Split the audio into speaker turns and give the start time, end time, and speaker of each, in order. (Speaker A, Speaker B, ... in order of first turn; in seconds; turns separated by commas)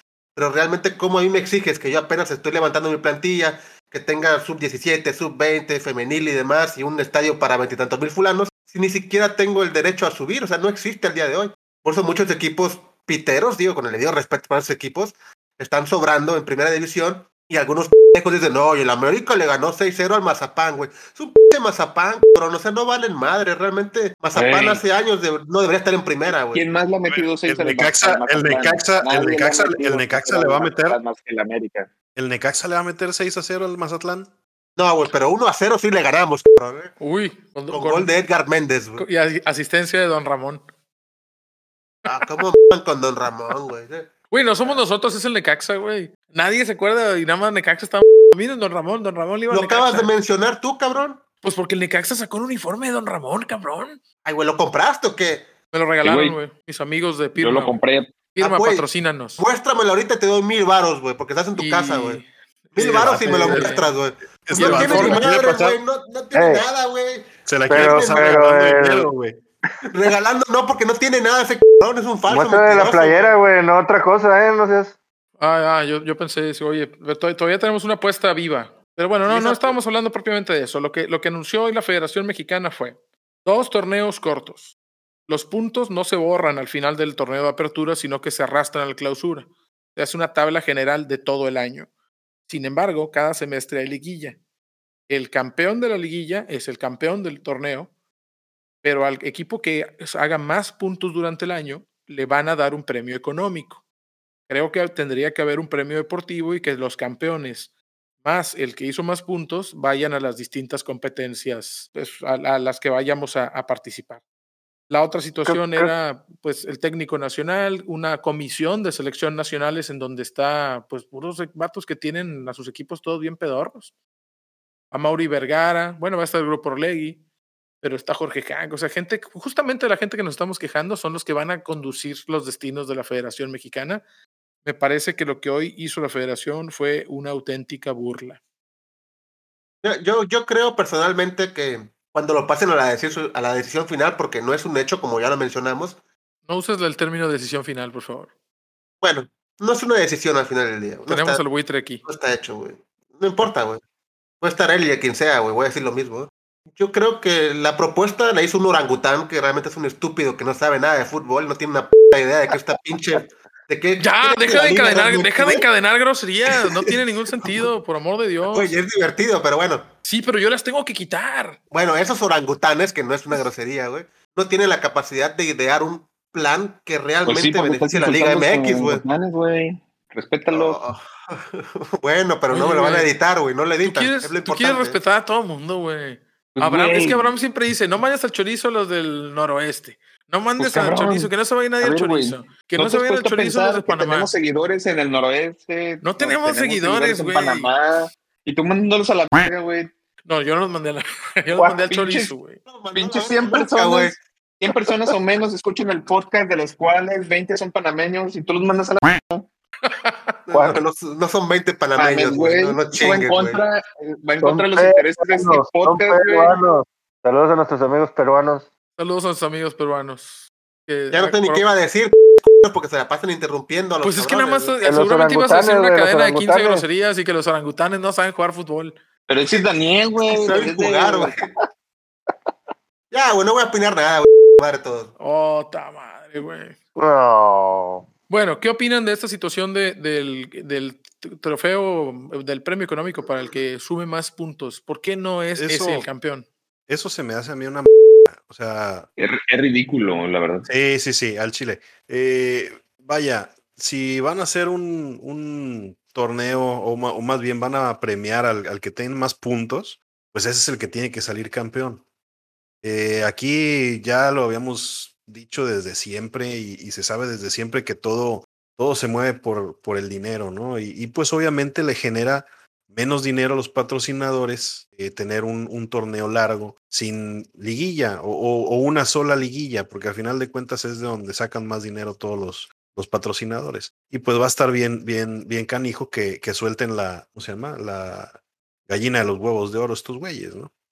Speaker A: 0.4-26.6, Speaker B: 24.3-24.8, Speaker B: 26.5-31.9, Speaker C: 27.1-31.0, Speaker C: 32.1-34.3, Speaker A: 34.8-36.9, Speaker D: 37.0-38.1, Speaker A: 37.7-39.1, Speaker D: 39.0-40.6, Speaker A: 42.1-44.8, Speaker D: 44.3-50.1, Speaker A: 49.5-51.2, Speaker D: 51.4-54.0, Speaker A: 54.2-55.5, Speaker D: 55.7-57.8, Speaker B: 56.0-56.4, Speaker B: 57.4-58.2, Speaker D: 58.4-59.4, Speaker A: 58.4-58.9, Speaker A: 59.4-62.2, Speaker D: 61.6-63.9, Speaker A: 62.8-68.5, Speaker C: 62.9-63.6, Speaker C: 64.5-65.8, Speaker D: 64.5-65.3, Speaker E: 66.3-66.7, Speaker C: 67.5-69.4, Speaker E: 67.7-69.1, Speaker A: 69.9-73.3, Speaker E: 72.3-75.0, Speaker D: 75.4-84.7, Speaker A: 79.2-79.8, Speaker D: 85.3-91.9, Speaker D: 92.5-94.4, Speaker D: 95.1-97.9, Speaker D: 98.8-103.8, Speaker D: 104.5-107.7, Speaker D: 108.2-114.2, Speaker D: 114.9-123.9, Speaker E: 115.5-115.9, Speaker D: 124.9-127.2, Speaker D: 127.8-134.0, Speaker D: 134.6-138.4, Speaker A: 139.8-146.0, Speaker D: 146.5-148.3, Speaker A: 149.0-151.4, Speaker D: 151.1-152.0, Speaker A: 152.1-153.8, Speaker A: 154.4-165.7, Speaker D: 164.0-168.7, Speaker A: 168.5-169.9, Speaker D: 170.0-171.6, Speaker A: 171.7-179.0, Speaker B: 177.2-180.8, Speaker A: 180.5-185.0, Speaker D: 182.5-183.1, Speaker D: 183.8-194.3, Speaker B: 186.6-187.3, Speaker B: 190.6-199.9, Speaker D: 196.0-197.7, Speaker D: 200.3-202.6, Speaker B: 201.5-202.3, Speaker A: 202.7-204.2, Speaker B: 202.9-209.5, Speaker D: 209.8-210.4, Speaker A: 210.5-213.6, Speaker E: 210.5-210.8, Speaker B: 212.0-216.6, Speaker E: 214.4-218.7, Speaker D: 219.0-221.6, Speaker A: 221.1-224.8, Speaker D: 224.0-229.0, Speaker E: 224.8-226.8, Speaker B: 229.3-231.3, Speaker A: 230.3-231.5, Speaker A: 233.1-235.1, Speaker D: 235.2-236.8, Speaker E: 237.0-238.1, Speaker D: 238.3-246.5, Speaker C: 245.6-246.1, Speaker C: 246.9-249.1, Speaker B: 249.2-250.7, Speaker C: 250.7-262.0, Speaker C: 262.8-288.4, Speaker C: 288.9-290.7